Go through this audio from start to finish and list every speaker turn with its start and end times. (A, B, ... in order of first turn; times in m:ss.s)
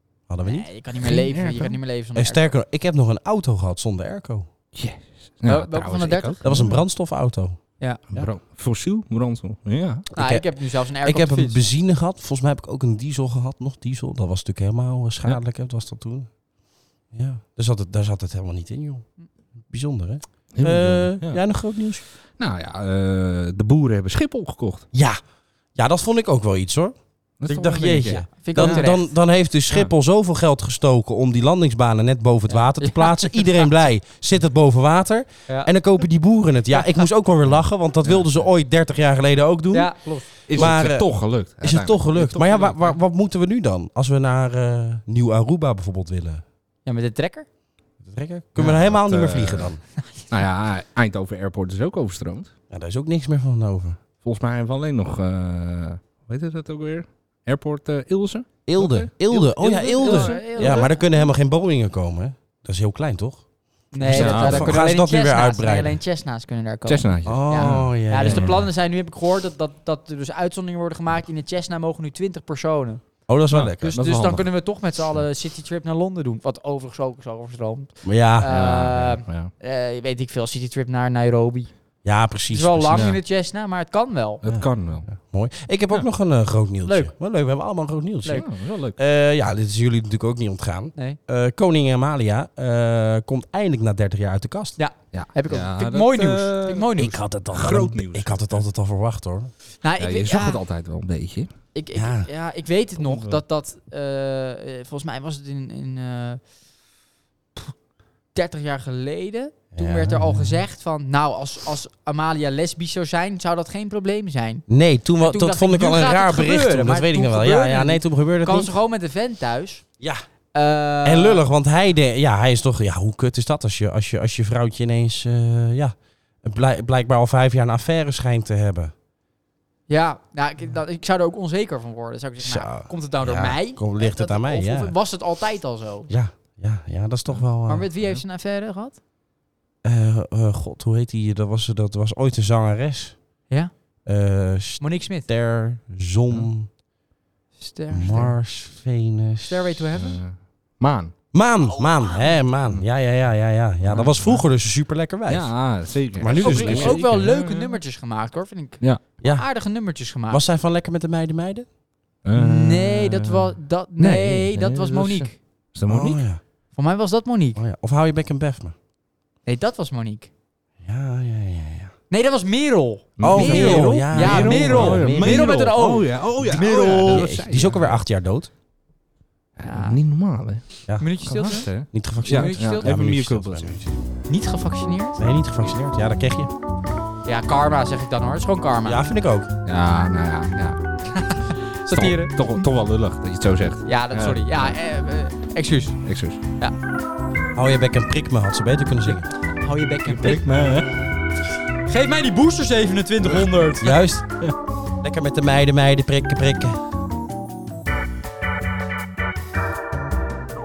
0:00.3-0:00.7 A
0:00.4-0:02.5 B
0:01.0-0:01.8 C
0:02.2-0:04.5 A
0:04.7-0:06.8 C
0:05.5-0:06.7 B
0:06.4-0:07.6 A
0:08.1-0:10.1 C
0:10.1-0:16.3 A
0:10.2-0:11.7 B
0:17.1-0:19.1 A
0:19.7-0:22.0 A
0:20.5-0:21.4 C
0:22.4-0:24.9 C
0:24.9-0:25.2 A
0:25.8-0:46.4 A
0:27.4-0:29.0 C
0:28.4-0:29.1 B
0:32.8-0:33.7 B
0:38.0-0:38.3 C
0:39.7-0:40.7 B
0:40.5-0:42.8 C
0:46.8-0:47.5 B
0:48.0-0:49.8 A
0:48.6-0:49.7 C
0:50.3-0:52.5 C
0:52.7-0:54.0 A
0:54.2-1:00.9 C
0:58.7-1:03.4 A
0:59.6-1:01.2 B
1:03.9-1:13.0 B
1:03.9-1:06.0 A
1:04.0-1:04.8 C
1:06.9-1:08.6 C
1:07.2-1:08.6 A
1:13.3-1:14.0 A
1:13.5-1:14.5 C
1:13.8-1:21.7 B
1:18.0-1:18.6 A
1:18.5-1:19.5 C
1:22.0-1:23.0 A
1:22.5-1:24.4 B
1:22.9-1:23.2 C
1:24.4-1:25.1 C
1:24.5-1:34.8 A
1:26.8-1:27.1 B
1:28.3-1:29.0 C
1:34.8-1:37.2 B
1:35.1-1:38.6 C
1:37.0-1:39.5 A
1:39.8-1:40.6 B
1:40.0-1:41.5 C
1:41.8-1:46.4 B
1:42.0-1:42.3 A
1:43.0-1:43.4 C
1:48.3-1:54.6 B
1:49.8-1:50.5 A
1:54.7-1:58.7 A
1:55.2-1:59.8 B
2:00.5-2:01.4 B
2:01.0-2:08.9 A
2:09.9-2:16.1 B
2:12.4-2:14.9 A
2:16.1-2:17.9 A
2:17.7-2:19.0 B
2:19.8-2:23.2 A
2:24.1-2:26.7 A
2:24.8-2:25.3 B
2:27.6-2:28.3 B
2:27.9-2:29.7 A
2:29.5-2:30.2 B
2:30.0-2:31.1 C
2:31.3-2:37.0 A
2:33.9-2:34.4 C
2:35.3-2:37.8 C
2:36.3-2:40.4 B
2:39.2-2:39.5 A
2:40.3-2:41.7 A
2:42.2-2:46.2 C
2:42.4-2:45.4 B
2:45.9-2:46.4 A
2:46.7-2:47.6 B
2:47.6-2:48.8 A
2:49.5-2:50.3 B
2:50.8-2:51.9 A
2:52.1-2:57.3 B
2:53.2-2:58.0 C
2:53.2-2:55.6 A
2:56.5-2:58.5 A
2:59.6-3:00.6 C
2:59.6-3:00.0 B
3:01.0-3:01.7 B
3:01.2-3:03.8 C
3:01.8-3:04.0 A
3:02.3-3:02.9 B
3:04.3-3:05.2 B
3:05.2-3:06.5 A
3:07.3-3:09.0 B
3:08.8-3:09.5 A
3:09.7-3:10.8 C
3:11.1-3:12.7 B
3:11.9-3:14.8 C
3:13.8-3:16.0 B
3:16.0-3:16.4 C
3:17.6-3:19.3 A
3:19.1-3:20.8 B
3:20.1-3:20.8 C
3:21.9-3:24.0 B
3:23.8-3:24.3 A
3:25.0-3:26.8 A